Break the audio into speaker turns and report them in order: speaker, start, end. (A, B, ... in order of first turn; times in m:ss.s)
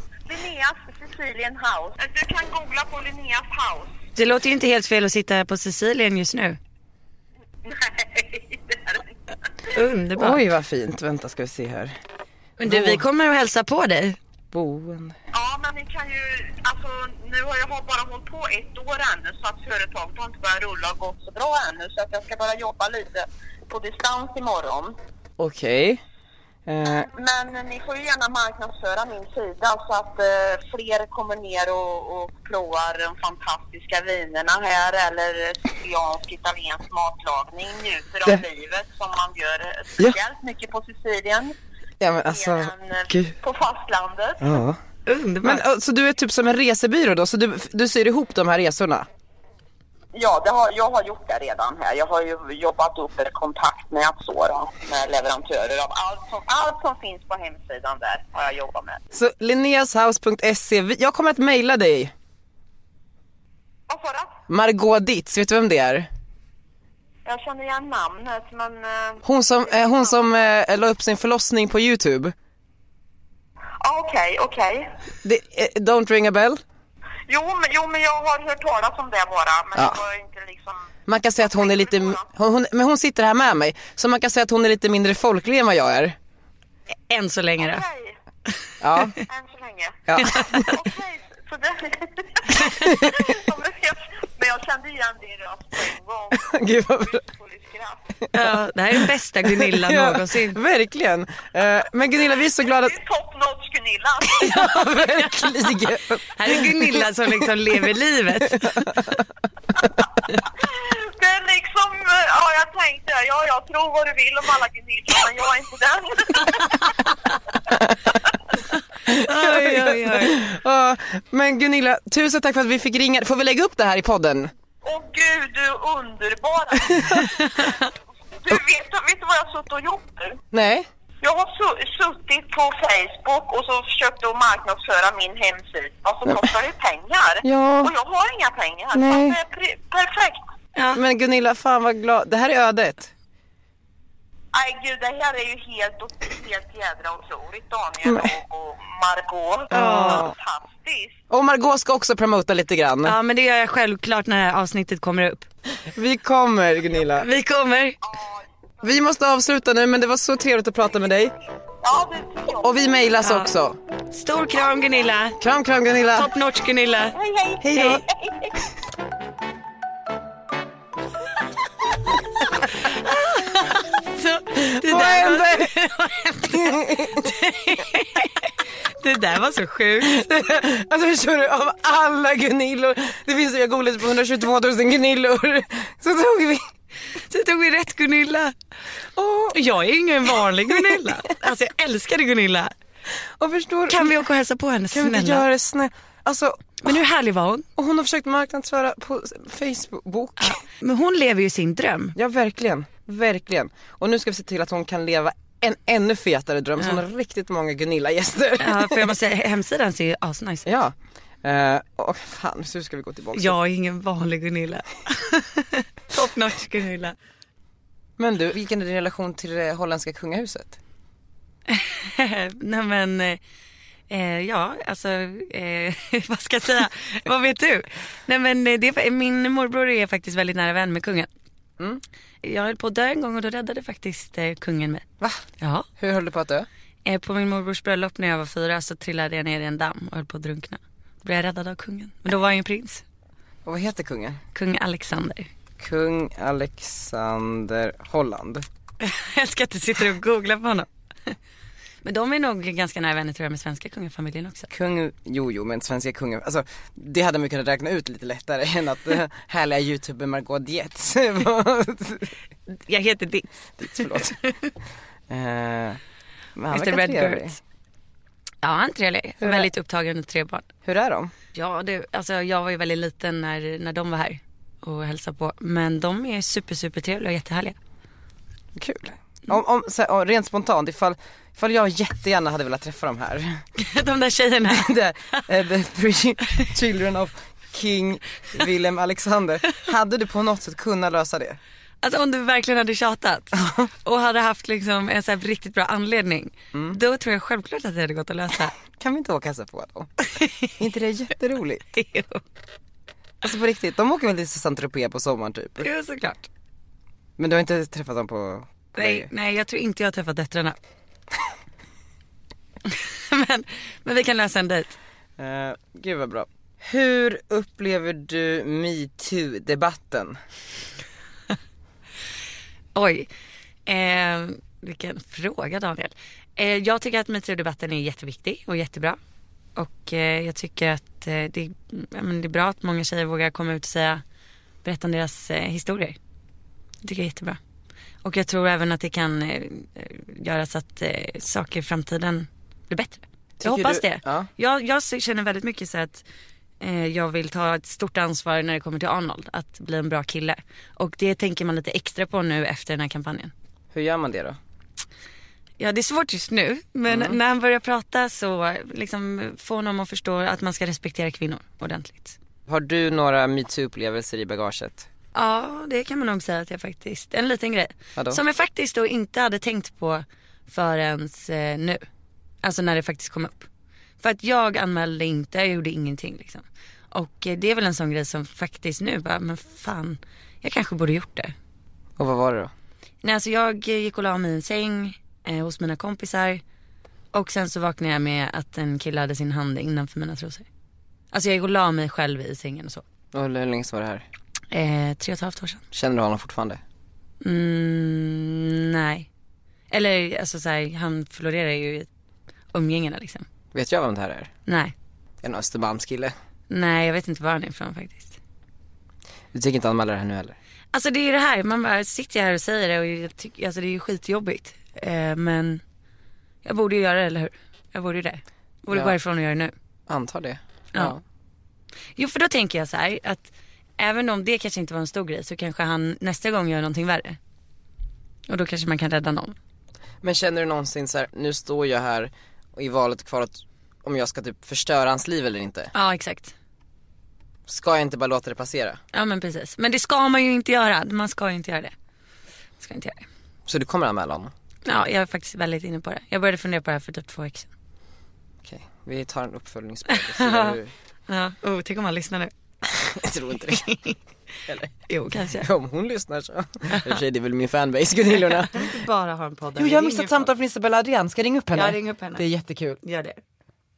0:00.3-0:04.0 A
0:04.2-0:06.6 B
0:07.6-0:09.0 A
0:09.7-0:10.4 B
0:10.2-0:12.0 C
0:12.6-0:14.2 B
0:12.7-0:13.0 C
0:14.5-0:15.2 C
0:15.3-0:25.0 A
0:25.4-0:26.0 C
0:26.7-0:27.1 C
0:27.1-0:41.6 A
0:42.0-0:43.4 C
0:42.3-0:44.4 A
0:44.4-0:44.8 C
0:45.1-0:45.6 B
0:45.4-0:49.1 C
0:50.1-0:59.0 A
0:59.1-1:02.1 C
1:03.9-1:04.4 A
1:04.5-1:06.1 C
1:07.2-1:10.3 A
1:09.2-1:12.4 C
1:13.8-1:14.9 A
1:15.2-1:16.6 C
1:17.3-1:20.9 A
1:21.1-1:26.2 C
1:21.4-1:22.3 A
1:27.1-1:27.8 B
1:27.6-1:28.2 A
1:28.8-1:29.2 C
1:29.2-1:38.0 A
1:30.1-1:30.7 C
1:30.2-1:30.7 B
1:32.6-1:32.9 B
1:32.7-1:33.2 C
1:36.4-1:37.2 C
1:38.3-1:43.0 C
1:38.3-1:40.6 B
1:42.6-1:44.7 A
1:44.4-1:47.5 C
1:44.4-1:45.5 B
1:46.3-1:49.2 B
1:48.5-1:49.2 C
1:50.6-1:56.9 A
1:57.7-1:58.0 C
1:59.1-2:04.5 C
1:59.1-2:00.4 B
2:04.8-2:07.3 A
2:06.9-2:07.2 C
2:08.4-2:10.4 A
2:10.5-2:10.9 C
2:11.2-2:20.4 A
2:17.4-2:17.9 C
2:18.9-2:19.4 C
2:20.8-2:21.0 B
2:21.0-2:23.1 C
2:24.5-2:31.2 A
2:28.0-2:28.3 C
2:29.7-2:30.3 B
2:29.7-2:30.4 C
2:31.3-2:33.2 C
2:33.0-2:35.5 B
2:35.8-2:37.3 C
2:37.2-2:38.0 B
2:38.1-2:38.4 A
2:38.8-2:41.4 C
2:41.8-2:42.9 A
2:42.6-2:43.8 C
2:43.2-2:43.5 B
2:44.1-2:45.4 B
2:45.4-2:46.3 C
2:46.1-2:47.2 B
2:47.2-2:48.5 A
2:47.6-2:48.0 C
2:47.7-2:48.0 B
2:52.7-3:00.3 B
2:54.6-2:55.7 C
2:56.5-2:57.3 C
3:00.0-3:06.6 C
3:07.3-3:08.6 B
3:09.2-3:09.6 C
3:09.5-3:12.7 B
3:10.7-3:11.1 C
3:13.4-3:14.2 C
3:13.9-3:15.5 B
3:14.9-3:17.0 C
3:16.8-3:17.7 B
3:17.8-3:20.6 C
3:20.4-3:22.2 B
3:22.2-3:29.2 C
3:28.6-3:30.7 B
3:30.7-3:33.6 C
3:33.4-3:37.2 B
3:38.2-3:40.8 C
3:41.7-3:43.4 B
3:44.1-3:51.3 B
3:52.4-3:55.0 B
3:55.6-3:55.9 B
3:56.0-3:56.7 C
3:57.0-4:03.0 B
4:03.6-4:04.4 C
4:04.5-4:05.5 B
4:05.8-4:08.7 C
4:09.0-4:11.4 B
4:12.0-4:14.7 B
4:14.7-4:22.3 C
4:22.7-4:24.7 B
4:23.8-4:24.4 C
4:25.3-4:26.0 C
4:26.6-4:27.6 C
4:26.7-4:27.6 B
4:28.6-4:30.7 B
4:29.4-4:29.7 C
4:30.8-4:31.3 C
4:31.5-4:37.8 B
4:38.8-4:43.6 C
4:43.8-4:45.4 B
4:44.7-4:51.6 C
4:52.0-4:58.8 B
4:58.9-5:00.1 C
5:00.3-5:00.8 B
5:00.8-5:01.9 C
5:01.9-5:02.4 B
5:03.4-5:05.9 C
5:05.8-5:06.5 B
5:07.4-5:09.3 C
5:09.0-5:10.8 B
5:12.9-5:15.0 B
5:15.4-5:20.4 C
5:23.0-5:23.3 B
5:23.9-5:29.2 B
5:29.8-5:34.2 B
5:34.8-5:36.2 B
5:37.0-5:37.6 B
5:38.2-5:46.2 B
5:43.6-5:44.5 C
5:46.8-5:53.5 B
5:53.9-5:54.6 C
5:55.8-6:02.4 B
5:57.1-5:57.4 C
6:02.7-6:05.1 C
6:05.3-6:12.0 B
6:08.2-6:08.4 C
6:12.6-6:13.7 B
6:14.2-6:21.6 B
6:22.2-6:22.7 C
6:23.2-6:26.6 B
6:27.3-6:30.7 B
6:31.3-6:33.0 B
6:33.3-6:34.2 C
6:34.7-6:35.8 B
6:35.9-6:36.8 C
6:37.4-6:39.3 B
6:39.9-6:42.1 B
6:42.7-6:43.5 B
6:43.7-6:44.5 C
6:44.7-6:44.9 B
6:45.4-6:46.3 C
6:46.7-6:48.4 B
6:49.5-6:50.6 C
6:50.9-6:55.8 B
6:56.6-6:59.7 B
7:00.1-7:01.2 C
7:02.2-7:07.4 B
7:08.5-7:09.6 B
7:10.2-7:15.9 C
7:15.9-7:16.5 B
7:17.7-7:19.0 C
7:19.1-7:21.9 B
7:22.8-7:23.3 B
7:23.7-7:24.5 C
7:24.8-7:27.7 B
7:28.6-7:30.9 C
7:30.1-7:30.8 B
7:31.3-7:32.5 B
7:32.9-7:33.8 C
7:33.7-7:34.2 B
7:34.7-7:39.0 C
7:35.1-7:35.7 B
7:36.9-7:37.2 B
7:38.6-7:40.5 B
7:39.8-7:43.0 C
7:41.7-7:42.5 B
7:43.0-7:43.4 B